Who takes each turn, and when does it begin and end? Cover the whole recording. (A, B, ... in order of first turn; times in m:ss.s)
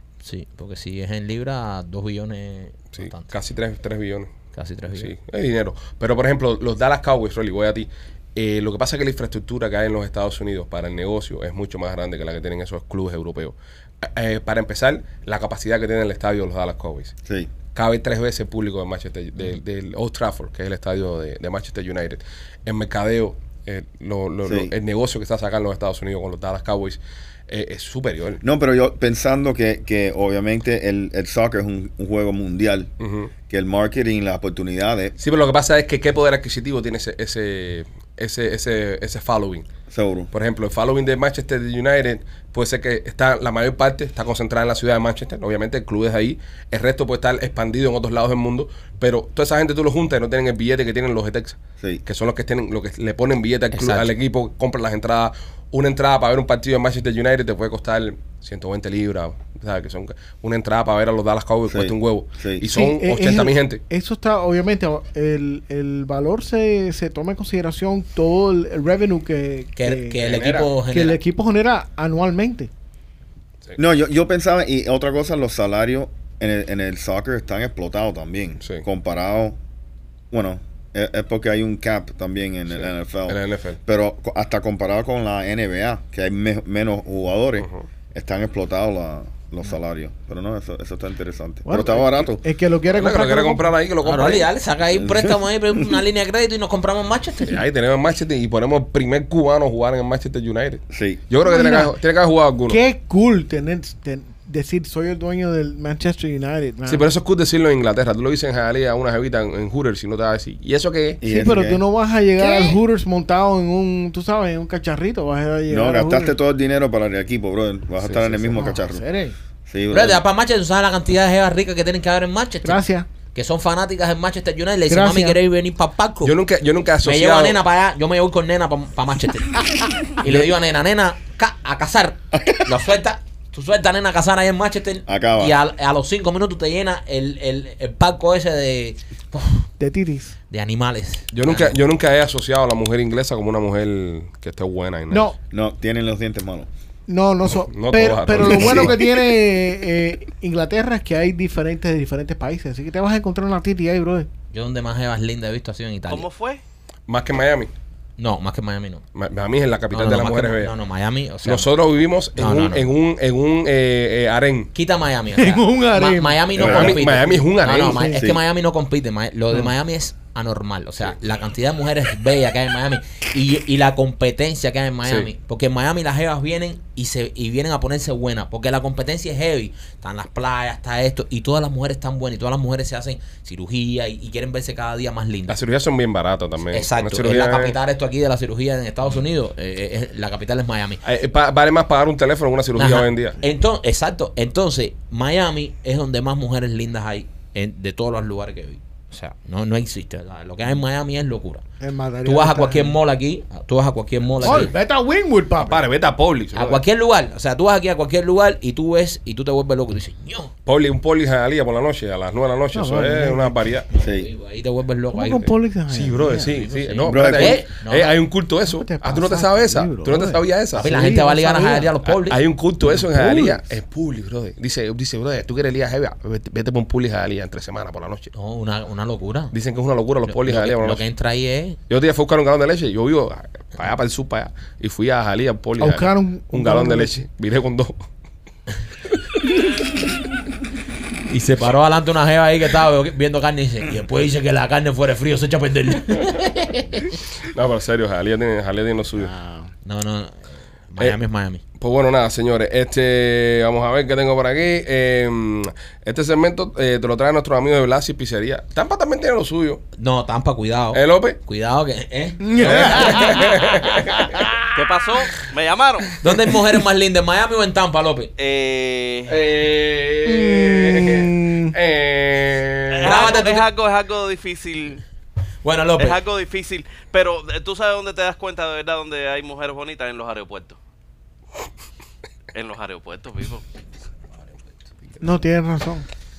0:00.2-0:03.3 A
0:02.9-0:04.3 B
0:04.6-0:05.1 A
0:05.0-0:17.1 B
0:17.3-0:17.5 C
0:17.7-0:28.4 B
0:24.4-0:24.7 C
0:28.4-0:32.9 C
0:33.0-0:33.3 B
0:33.5-0:35.2 C
0:35.2-0:39.7 B
0:39.9-0:40.3 C
0:40.3-1:03.8 B
0:53.7-0:54.1 A
1:01.7-1:02.7 C
1:02.7-1:10.2 D
1:09.8-1:11.2 A
1:10.2-1:10.7 B
1:10.9-1:12.7 D
1:13.8-1:19.6 C
1:20.3-1:32.4 C
1:22.8-1:23.8 B
1:31.7-1:33.7 D
1:32.9-1:34.5 B
1:34.0-1:37.6 A
1:35.0-1:35.8 C
1:37.5-1:42.8 B
1:40.9-1:41.2 C
1:41.4-1:41.9 D
1:42.7-1:47.1 D
1:46.9-1:51.2 B
1:51.2-1:51.8 C
1:51.2-1:56.3 D
1:52.4-1:52.8 C
1:55.7-1:59.0 C
1:58.0-1:58.5 B
1:58.5-1:59.4 D
1:59.7-2:00.2 C
1:59.9-2:02.8 A
2:02.6-2:03.1 D
2:03.3-2:06.3 A
2:04.9-2:05.4 D
2:06.2-2:07.6 B
2:07.0-2:19.7 A
2:15.1-2:15.6 C
2:19.8-2:20.4 D
2:20.5-2:21.8 A
2:21.3-2:25.3 B
2:25.1-2:25.4 D
2:25.5-2:26.7 C
2:27.1-2:34.3 D
2:27.5-2:29.0 B
2:28.4-2:28.9 C
2:34.5-2:36.3 A
2:36.1-2:36.6 E
2:37.1-2:37.7 B
2:38.2-2:39.0 A
2:39.2-2:40.7 B
2:39.9-2:41.7 A
2:41.4-2:44.7 B
2:42.4-2:42.9 A
2:44.8-3:05.6 A
2:45.4-2:46.7 D
2:46.6-2:47.0 C
2:46.6-2:48.1 B
2:47.8-2:48.2 D
2:48.1-2:48.4 C
3:05.5-3:07.8 B
3:06.7-3:11.0 A
3:11.0-3:13.4 B
3:12.8-3:21.6 A
3:21.8-3:23.0 D
3:22.2-3:24.7 A
3:24.4-3:24.7 B
3:24.4-3:25.8 D
3:25.6-3:26.8 B
3:26.5-3:30.5 A
3:30.7-3:33.9 B
3:32.7-3:33.6 D
3:33.9-3:35.5 A
3:34.0-3:34.3 C
3:35.1-3:36.6 D
3:35.9-3:41.0 B
3:36.5-3:38.2 A
3:37.1-3:37.6 C
3:38.7-3:41.9 D
3:40.8-3:42.4 A
3:42.1-3:48.3 B
3:42.9-3:43.6 D
3:48.3-3:49.5 A
3:49.5-3:51.0 B
3:50.3-3:51.8 A
3:51.9-3:58.0 B
3:55.8-3:57.1 D
4:01.3-4:07.1 A
4:07.5-4:09.3 B
4:09.2-4:09.7 D
4:09.8-4:11.6 A
4:11.8-4:19.8 B
4:20.0-4:23.4 A
4:20.9-4:21.4 B
4:22.4-4:24.6 D
4:22.6-4:24.3 B
4:24.8-4:26.2 E
4:26.2-4:28.3 A
4:28.4-4:29.4 E
4:29.3-4:33.3 B
4:30.2-4:31.8 D
4:32.9-4:35.0 E
4:33.0-4:33.7 A
4:35.6-4:36.2 A
4:36.0-4:40.8 E
4:42.5-4:43.6 E
4:45.2-4:46.1 D